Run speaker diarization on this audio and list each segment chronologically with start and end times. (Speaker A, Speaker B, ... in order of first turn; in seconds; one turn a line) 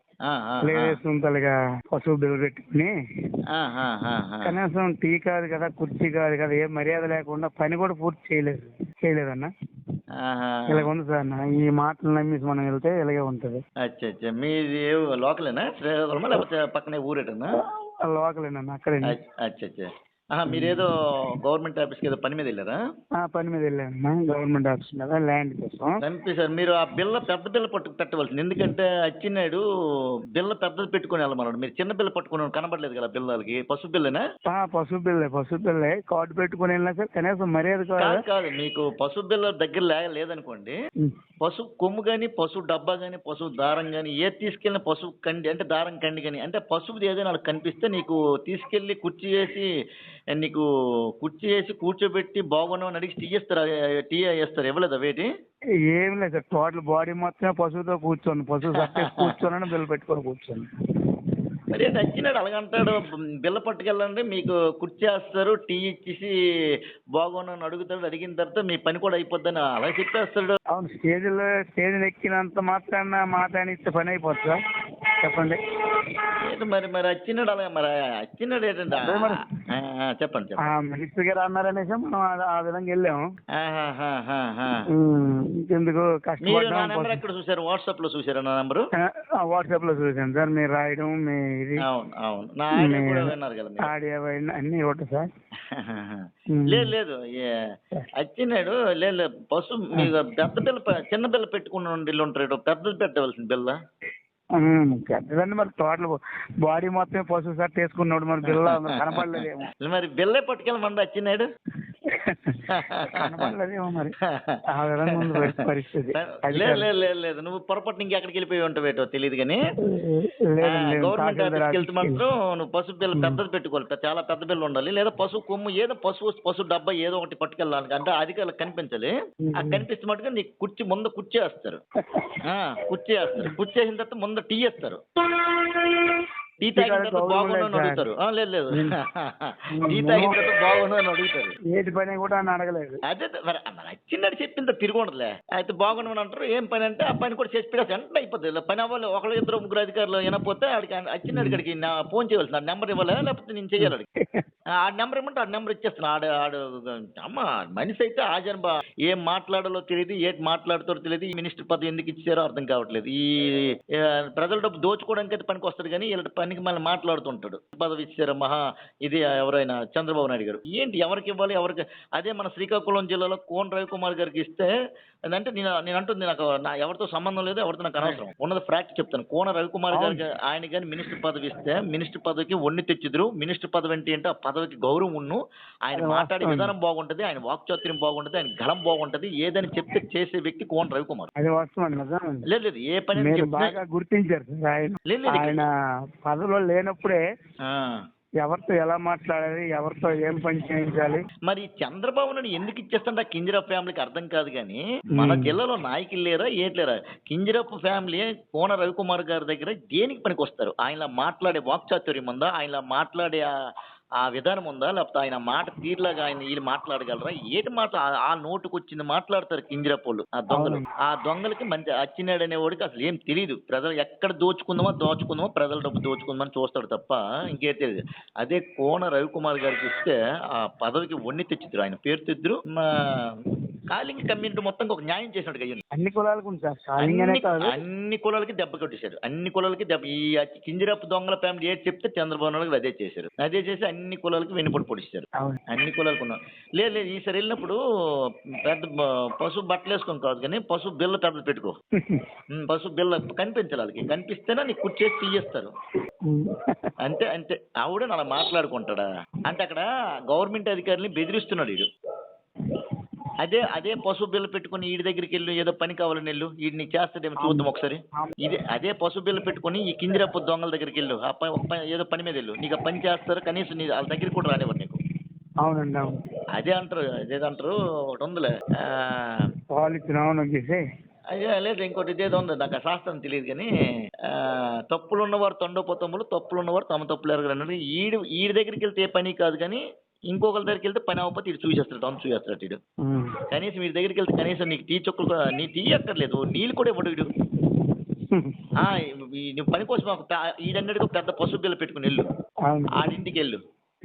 Speaker A: 0.3-1.0
Speaker B: 0.6-2.9
Speaker A: 3.5-4.5
Speaker B: 4.5-9.5
Speaker A: 10.2-10.8
Speaker B: 10.7-13.6
Speaker A: 13.8-17.5
Speaker B: 18.0-19.1
Speaker A: 19.0-22.8
Speaker B: 20.5-20.8
Speaker B: 23.2-26.0
Speaker A: 26.0-29.6
Speaker A: 30.4-34.2
Speaker B: 34.5-38.2
Speaker A: 38.0-40.7
Speaker A: 41.4-49.7
Speaker A: 50.4-50.6
Speaker A: 51.2-55.3
Speaker B: 55.9-60.7
Speaker A: 58.8-59.3
Speaker A: 61.7-66.3
Speaker A: 67.2-70.6
Speaker B: 70.7-74.6
Speaker B: 75.2-76.2
Speaker A: 76.4-80.6
Speaker B: 78.9-79.4
Speaker B: 80.6-83.2
Speaker A: 83.6-84.8
Speaker B: 84.9-87.2
Speaker A: 86.4-88.9
Speaker B: 89.4-91.8
Speaker A: 91.8-93.9
Speaker B: 92.8-93.3
Speaker B: 93.8-95.3
Speaker A: 95.7-97.6
Speaker B: 96.5-96.9
Speaker A: 98.2-103.8
Speaker B: 104.6-109.7
Speaker A: 108.4-111.5
Speaker B: 112.1-114.1
Speaker A: 112.7-113.2
Speaker A: 114.2-114.6
Speaker B: 114.7-116.9
Speaker A: 115.1-115.5
Speaker A: 116.2-119.6
Speaker B: 119.9-122.2
Speaker A: 120.6-131.8
Speaker B: 123.1-123.4
Speaker B: 129.4-129.8
Speaker A: 132.5-135.0
Speaker B: 135.3-138.1
Speaker A: 136.6-141.6
Speaker B: 139.8-140.4
Speaker B: 141.7-143.0
Speaker A: 143.1-154.1
Speaker B: 151.3-151.6
Speaker B: 153.8-154.4
Speaker A: 154.8-163.2
Speaker A: 164.3-174.7
Speaker A: 175.3-191.3
Speaker B: 179.9-180.2
Speaker B: 185.9-186.7
Speaker B: 191.4-192.4
Speaker A: 192.4-193.7
Speaker B: 193.2-195.7
Speaker A: 195.1-195.6
Speaker B: 196.2-197.2
Speaker A: 197.6-198.0
Speaker B: 198.4-201.2
Speaker A: 201.5-213.5
Speaker B: 205.2-205.6
Speaker A: 214.2-233.0
Speaker B: 220.5-220.9
Speaker A: 233.9-235.8
Speaker B: 235.9-237.7
Speaker A: 237.0-247.8
Speaker A: 248.6-251.7
Speaker A: 252.5-255.7
Speaker B: 256.3-256.9
Speaker A: 257.0-261.9
Speaker A: 263.4-275.0
Speaker B: 267.4-267.7
Speaker B: 275.6-276.1
Speaker A: 276.6-279.4
Speaker B: 279.7-280.8
Speaker A: 281.3-283.7
Speaker A: 284.3-292.8
Speaker B: 293.0-293.3
Speaker A: 293.5-297.3
Speaker B: 297.6-298.5
Speaker A: 298.8-302.3
Speaker B: 302.7-303.0
Speaker A: 302.9-303.6